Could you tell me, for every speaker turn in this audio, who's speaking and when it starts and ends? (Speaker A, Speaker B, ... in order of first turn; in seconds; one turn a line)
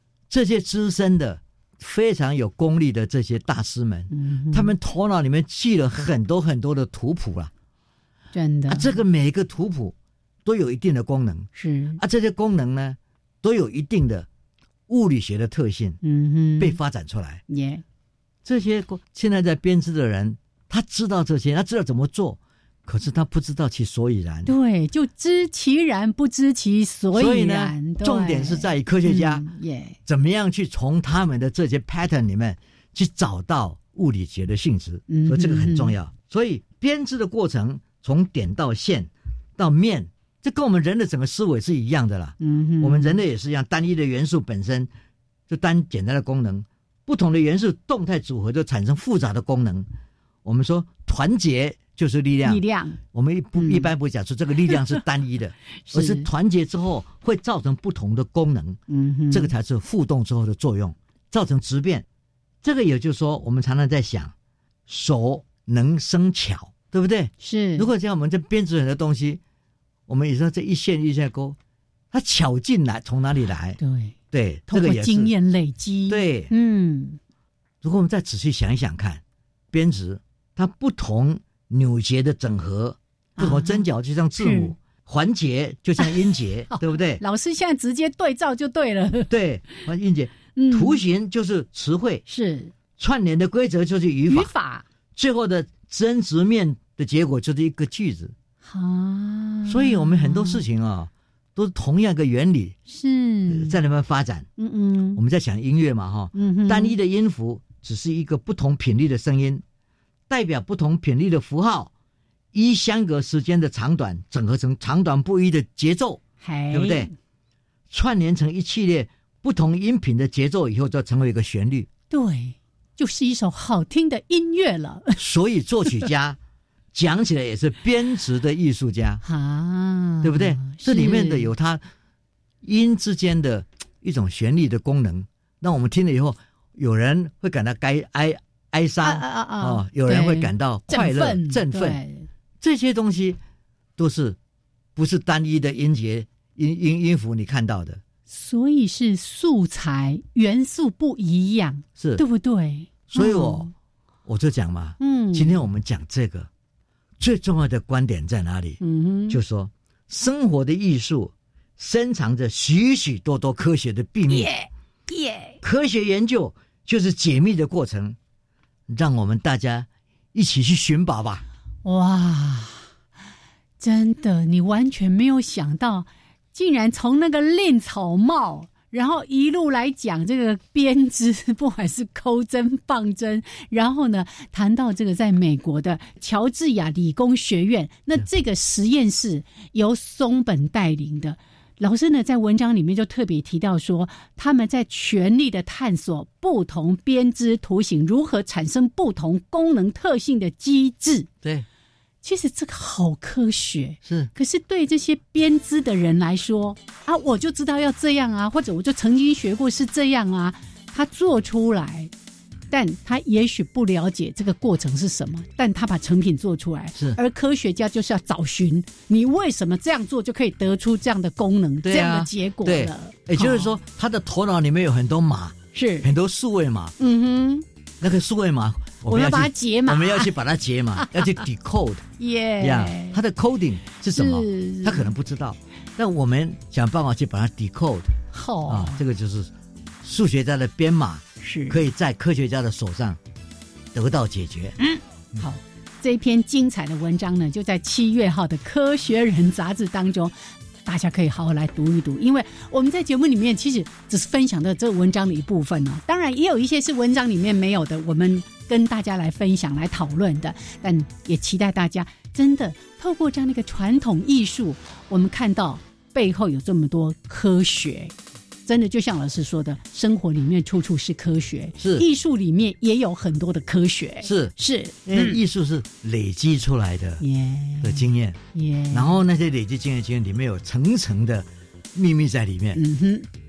Speaker A: 0.3-7.5
Speaker B: 4.1-4.7
Speaker B: 8.3-8.9
Speaker A: 8.7-14.3
Speaker B: 11.5-12.0
Speaker A: 14.9-16.0
Speaker B: 16.0-16.8
Speaker A: 16.6-17.4
Speaker B: 17.5-17.8
Speaker A: 18.4-24.5
Speaker B: 24.4-30.0
Speaker A: 27.1-29.4
Speaker A: 30.1-44.9
Speaker B: 35.1-35.9
Speaker B: 42.4-43.2
Speaker A: 45.5-49.9
Speaker A: 50.4-58.8
Speaker B: 52.4-53.0
Speaker B: 53.6-53.9
Speaker B: 54.7-55.0
Speaker B: 55.8-56.3
Speaker B: 58.9-59.5
Speaker A: 59.3-62.0
Speaker A: 62.6-64.3
Speaker A: 64.9-69.4
Speaker B: 67.4-67.9
Speaker A: 70.1-71.6
Speaker A: 72.1-73.8
Speaker B: 73.8-74.2
Speaker A: 74.3-75.3
Speaker B: 74.7-77.2
Speaker A: 76.1-76.5
Speaker A: 77.8-87.2
Speaker B: 83.4-83.8
Speaker B: 84.4-84.7
Speaker B: 86.7-89.3
Speaker A: 89.3-92.2
Speaker B: 90.5-91.0
Speaker B: 92.3-92.7
Speaker A: 93.0-94.5
Speaker B: 94.3-94.8
Speaker A: 95.1-98.3
Speaker B: 98.6-100.6
Speaker A: 99.7-102.8
Speaker B: 102.9-103.8
Speaker A: 103.5-104.5
Speaker B: 104.6-105.2
Speaker A: 105.1-109.6
Speaker B: 106.3-107.0
Speaker A: 110.3-111.9
Speaker A: 112.5-117.1
Speaker B: 116.4-117.1
Speaker A: 117.9-121.9
Speaker B: 122.1-125.2
Speaker A: 125.2-126.4
Speaker A: 126.9-129.2
Speaker B: 129.2-131.5
Speaker A: 130.2-131.8
Speaker A: 132.6-142.0
Speaker B: 139.0-142.3
Speaker A: 142.6-143.4
Speaker A: 144.0-144.4
Speaker A: 144.9-148.0
Speaker B: 148.3-153.7
Speaker A: 152.0-152.2
Speaker A: 153.1-153.7
Speaker A: 154.2-156.5
Speaker B: 155.0-155.6
Speaker A: 157.2-164.5
Speaker B: 158.8-159.4
Speaker B: 164.3-165.6
Speaker A: 165.6-168.2
Speaker A: 168.9-171.4
Speaker B: 171.8-172.9
Speaker B: 173.8-201.3
Speaker B: 202.2-212.1
Speaker A: 204.0-204.3
Speaker B: 212.7-223.7
Speaker A: 221.8-226.9
Speaker B: 225.7-226.1
Speaker B: 227.0-227.7
Speaker A: 228.0-232.1
Speaker B: 229.0-230.3
Speaker B: 231.0-231.3
Speaker B: 232.2-233.2
Speaker A: 232.6-238.2
Speaker B: 234.1-235.1
Speaker B: 238.3-239.0
Speaker A: 238.7-243.2
Speaker B: 241.4-241.8
Speaker A: 243.9-244.8
Speaker B: 244.8-250.3
Speaker B: 250.8-268.1
Speaker B: 268.6-275.4
Speaker A: 271.8-272.1
Speaker A: 274.2-274.5
Speaker A: 275.0-277.2
Speaker B: 277.2-279.1
Speaker A: 277.8-278.4
Speaker A: 278.9-282.8
Speaker B: 282.7-283.3